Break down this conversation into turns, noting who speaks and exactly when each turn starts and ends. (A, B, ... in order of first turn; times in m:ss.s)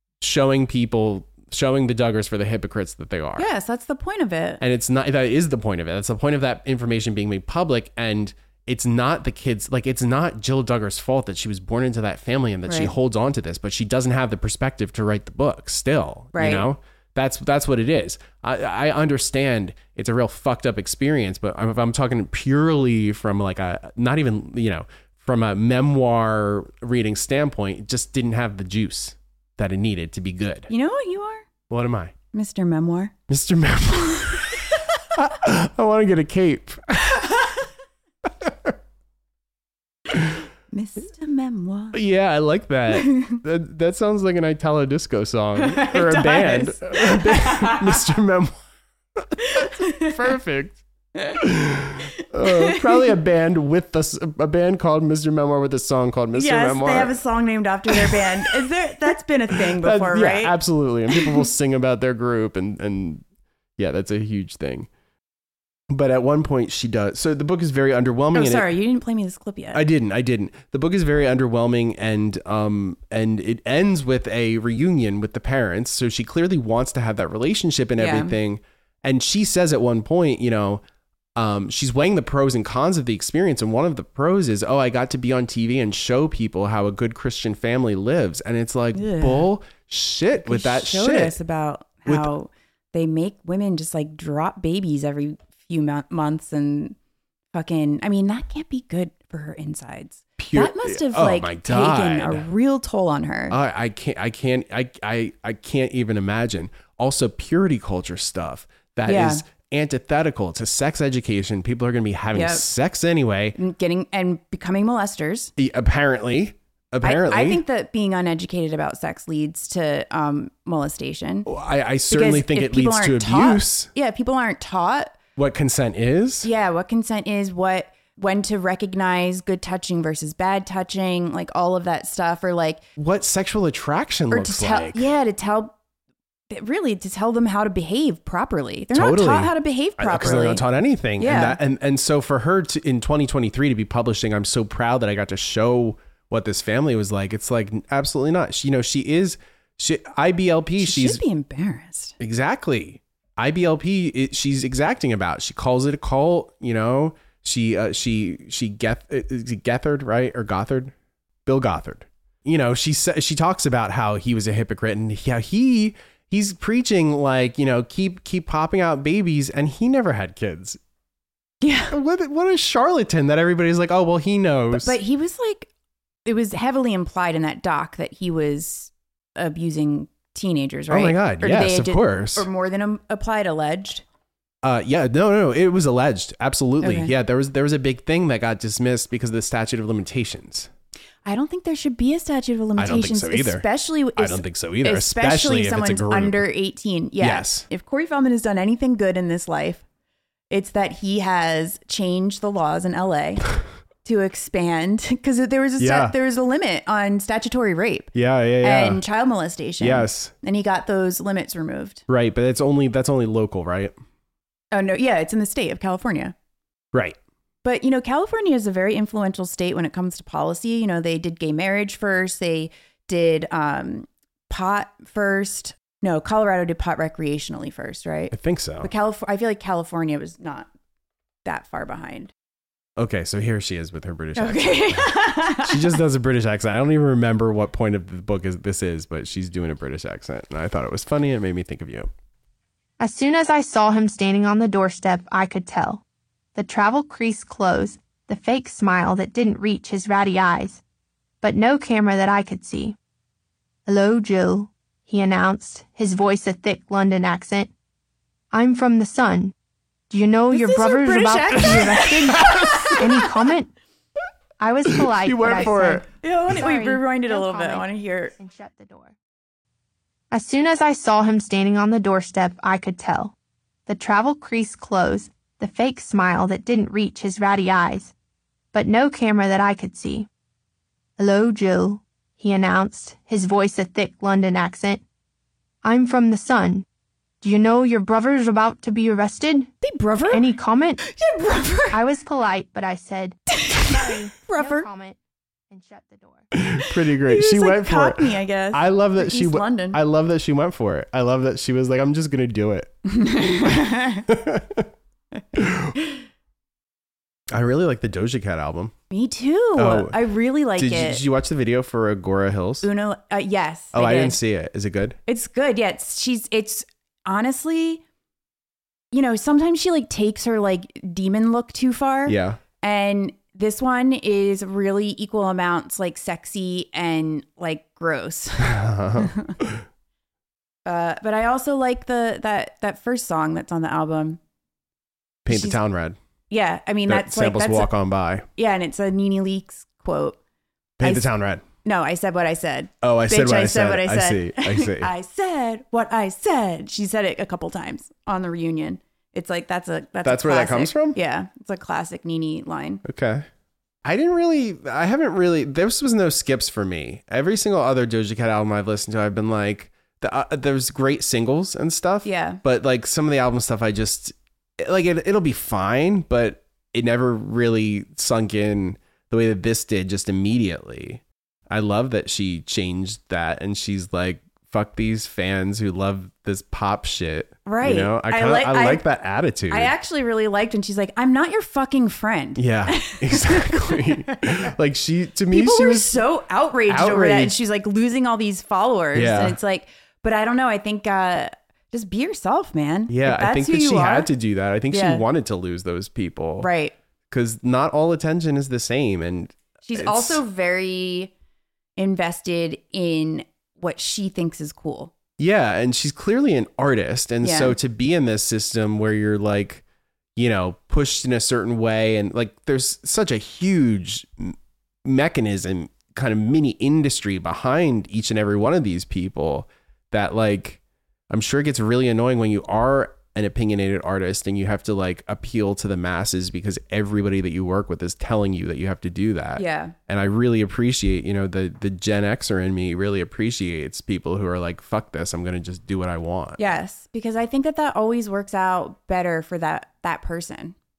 0:00.2-0:03.5 A
0:03.4-0:04.6 B
0:04.6-0:30.7 A
0:12.6-0:12.9 B
0:16.3-0:16.7 B
0:30.7-0:31.5 B
0:31.7-0:32.1 A
0:32.3-0:33.1 B
0:33.3-0:37.4 A
0:38.2-0:38.8 A
0:40.1-0:40.4 A
0:40.7-0:42.0 B
0:41.9-0:48.6 A
0:42.9-0:43.4 B
0:45.6-0:48.0 B
0:49.2-0:50.8 A
0:49.4-0:50.2 B
0:51.4-0:57.2 A
0:52.2-0:53.1 B
0:56.3-1:00.6 B
0:57.9-0:58.6 A
0:59.5-1:03.2 A
1:01.1-1:01.4 B
1:03.8-1:04.9 A
1:05.9-1:08.7 A
1:08.3-1:09.8 B
1:09.7-1:20.8 A
1:18.0-1:18.4 B
1:21.4-1:31.4 A
1:28.9-1:29.5 B
1:30.3-1:37.0 B
1:37.5-1:43.6 B
1:40.4-1:42.4 A
1:43.5-1:53.6 A
1:49.1-1:49.4 B
1:52.3-1:52.6 B
1:53.6-1:55.5 B
1:55.6-1:57.6 A
1:57.0-2:01.5 B
2:01.4-2:03.9 A
2:02.1-2:05.2 B
2:05.4-2:06.5 A
2:06.4-2:12.8 B
2:13.0-2:15.1 A
2:14.3-2:15.8 B
2:16.5-2:20.6 B
2:18.9-2:31.2 A
2:21.2-2:21.6 B
2:30.8-2:32.2 B
2:32.2-2:40.9 A
2:41.4-2:50.8 A
2:51.6-2:51.9 B
2:51.9-2:55.0 A
2:54.7-2:55.7 B
2:56.3-3:04.0 B
3:00.9-3:02.5 A
3:04.6-3:10.7 A
3:06.8-3:07.1 B
3:11.2-3:19.8 B
3:12.8-3:16.5 A
3:17.2-3:17.7 A
3:20.5-3:23.5 B
3:24.0-3:28.1 B
3:25.8-3:26.1 A
3:28.1-3:29.0 A
3:28.6-3:32.0 B
3:29.8-3:30.3 A
3:32.1-3:33.9 A
3:34.7-3:36.4 B
3:36.9-3:37.2 A
3:37.6-3:50.7 B
3:48.3-3:48.9 A
3:51.4-3:52.3 B
3:53.0-4:02.1 A
3:54.4-3:56.0 B
4:03.0-4:06.0 C
4:06.6-4:10.8 C
4:11.4-4:13.0 C
4:13.9-4:17.7 C
4:18.5-4:19.5 C
4:20.1-4:23.7 C
4:20.5-4:23.2 B
4:22.3-4:23.0 A
4:24.6-4:29.1 C
4:24.9-4:26.0 A
4:25.4-4:28.4 B
4:30.3-4:33.3 C
4:33.9-4:38.1 C
4:38.7-4:40.3 C
4:41.2-4:45.0 C
4:45.8-4:46.8 C
4:47.4-4:49.7 C
4:49.8-4:52.0 B
4:50.3-4:51.0 C
4:51.9-4:55.2 C
4:53.6-4:54.9 B
4:55.7-4:56.5 C
4:56.5-5:02.9 A
4:56.9-5:00.0 B
5:03.1-5:04.3 B
5:03.6-5:04.9 A
5:05.6-5:06.0 A
5:07.5-5:08.9 A
5:09.1-5:11.2 B
5:09.8-5:10.2 A
5:10.8-5:12.9 A
5:12.8-5:14.4 B
5:13.9-5:15.2 A
5:15.3-5:18.0 B
5:19.1-5:29.6 B
5:22.3-5:22.6 A
5:28.6-5:29.8 A
5:30.8-5:34.4 B
5:35.4-5:36.2 A
5:35.5-5:35.8 B
5:36.5-5:37.9 B
5:37.1-5:38.5 A
5:38.6-5:40.4 B
5:41.0-5:41.6 A
5:41.0-5:41.3 B
5:41.8-5:53.0 B
5:43.0-5:45.1 A
5:50.2-5:51.2 A
5:53.0-5:53.4 A
5:54.0-6:19.9 A
6:02.2-6:02.6 B
6:17.6-6:19.0 B
6:19.7-6:24.6 B
6:22.6-6:26.2 A
6:25.5-6:34.3 B
6:26.9-6:27.6 A
6:29.1-6:29.6 A
6:33.1-6:36.7 A
6:34.9-6:35.2 B
6:36.6-6:37.0 B
6:37.3-6:40.4 A
6:39.9-6:41.3 B
6:42.0-6:45.1 B
6:45.4-6:49.8 A
6:47.4-6:47.8 B
6:50.4-7:16.6 A
7:09.6-7:09.9 B
7:16.6-7:20.8 B